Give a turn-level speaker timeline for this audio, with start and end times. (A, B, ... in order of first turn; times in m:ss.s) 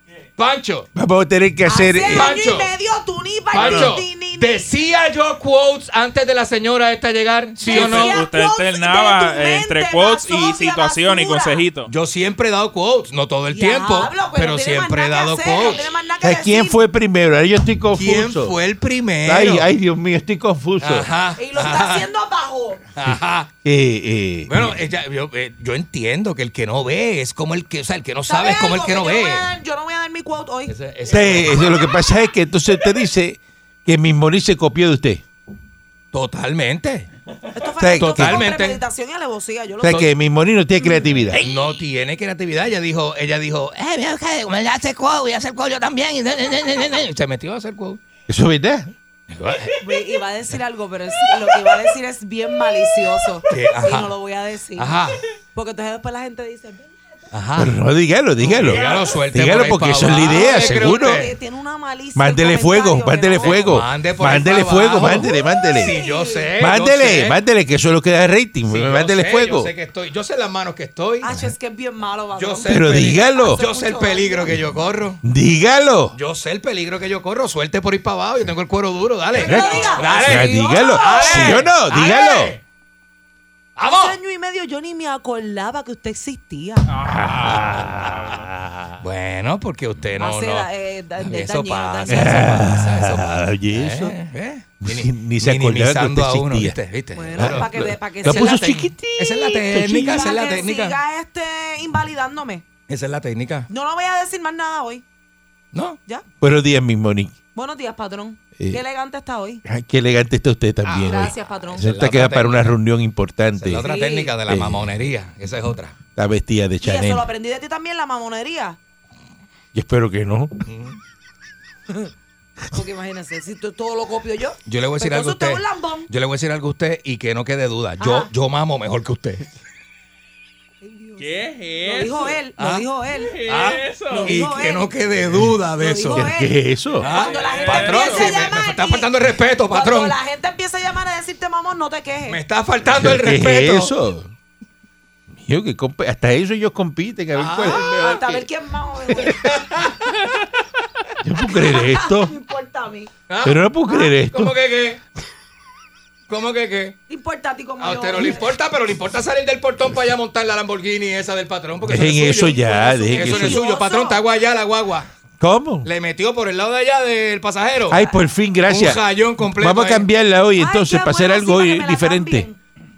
0:00.4-0:00.9 A
0:00.9-0:02.3 B
0:01.6-0:04.7 C
0:02.1-0:02.7 A
0:03.5-0:08.2 A
0:03.5-0:03.9 B
0:07.6-0:11.6 C
0:07.7-0:11.9 D
0:07.7-0:08.0 B
0:11.8-0:15.9 A
0:13.5-0:16.8 C
0:16.2-0:18.6 B
0:17.9-0:19.7 A
0:19.2-0:21.1 B
0:20.8-0:22.1 A
0:21.4-0:22.8 C
0:22.9-0:23.5 A
0:23.6-0:24.8 B
0:24.5-0:29.5 A
0:28.3-0:30.7 C
0:30.7-0:31.6 A
0:31.1-0:35.2 B
0:36.1-0:37.1 A
0:37.5-0:40.1 C
0:37.8-0:38.5 B
0:38.0-0:38.8 A
0:39.8-0:41.4 B
0:41.4-0:48.0 A
0:48.3-0:48.9 B
0:49.3-0:49.8 A
0:49.8-0:55.0 C
0:53.5-0:54.1 A
0:54.8-0:55.2 A
0:55.5-0:57.2 C
0:57.3-0:57.8 A
0:57.6-1:01.2 B
0:58.4-1:01.3 A
1:00.3-1:03.6 C
1:02.1-1:06.0 B
1:03.4-1:07.4 A
1:05.2-1:06.5 C
1:06.6-1:09.7 B
1:08.7-1:11.3 A
1:11.2-1:14.5 C
1:12.4-1:15.2 A
1:12.6-1:13.6 B
1:15.2-1:16.2 B
1:16.1-1:22.6 A
1:19.3-1:22.5 C
1:19.4-1:22.6 B
1:23.8-1:24.2 A
1:23.9-1:26.9 C
1:26.9-1:28.5 D
1:27.0-1:29.0 B
1:27.4-1:28.2 A
1:29.0-1:30.7 A
1:30.2-1:32.7 C
1:31.2-1:37.7 A
1:32.1-1:34.2 B
1:34.8-1:36.8 B
1:37.1-1:38.8 C
1:37.3-1:40.3 B
1:38.2-1:41.0 A
1:40.1-1:42.6 C
1:42.9-1:43.7 A
1:43.7-1:45.0 C
1:45.7-1:46.0 A
1:46.4-1:47.4 B
1:47.5-1:49.6 C
1:49.6-1:53.9 B
1:50.9-1:52.7 A
1:51.0-1:51.8 C
1:53.6-1:56.0 A
1:53.8-1:54.3 C
1:54.5-1:54.9 B
1:56.2-1:57.3 B
1:56.8-1:58.8 C
1:59.7-2:00.6 B
2:00.7-2:01.0 A
2:02.7-2:06.1 C
2:04.6-2:09.4 A
2:08.0-2:08.3 C
2:10.8-2:11.3 C
2:11.2-2:12.4 D
2:11.8-2:13.4 C
2:12.6-2:12.8 A
2:13.3-2:14.3 D
2:13.5-2:16.2 A
2:14.1-2:14.9 C
2:15.8-2:19.1 C
2:16.1-2:17.0 B
2:17.0-2:20.1 A
2:17.1-2:18.5 D
2:19.7-2:22.4 C
2:22.3-2:23.9 A
2:22.8-2:24.3 B
2:25.3-2:28.4 B
2:27.3-2:27.8 A
2:27.7-2:29.4 C
2:29.1-2:29.6 B
2:29.4-2:29.9 A
2:31.2-2:32.3 B
2:31.6-2:33.1 C
2:33.3-2:33.6 A
2:33.4-2:34.6 B
2:33.9-2:34.1 C
2:34.2-2:35.0 A
2:36.3-2:37.0 A
2:37.1-2:38.4 C
2:37.8-2:42.6 A
2:41.8-2:43.6 B
2:42.3-2:44.2 C
2:43.1-2:45.1 A
2:45.4-2:45.9 B
2:45.8-2:48.0 A
2:47.9-2:52.5 B
2:48.6-2:50.1 A
2:50.6-2:52.6 C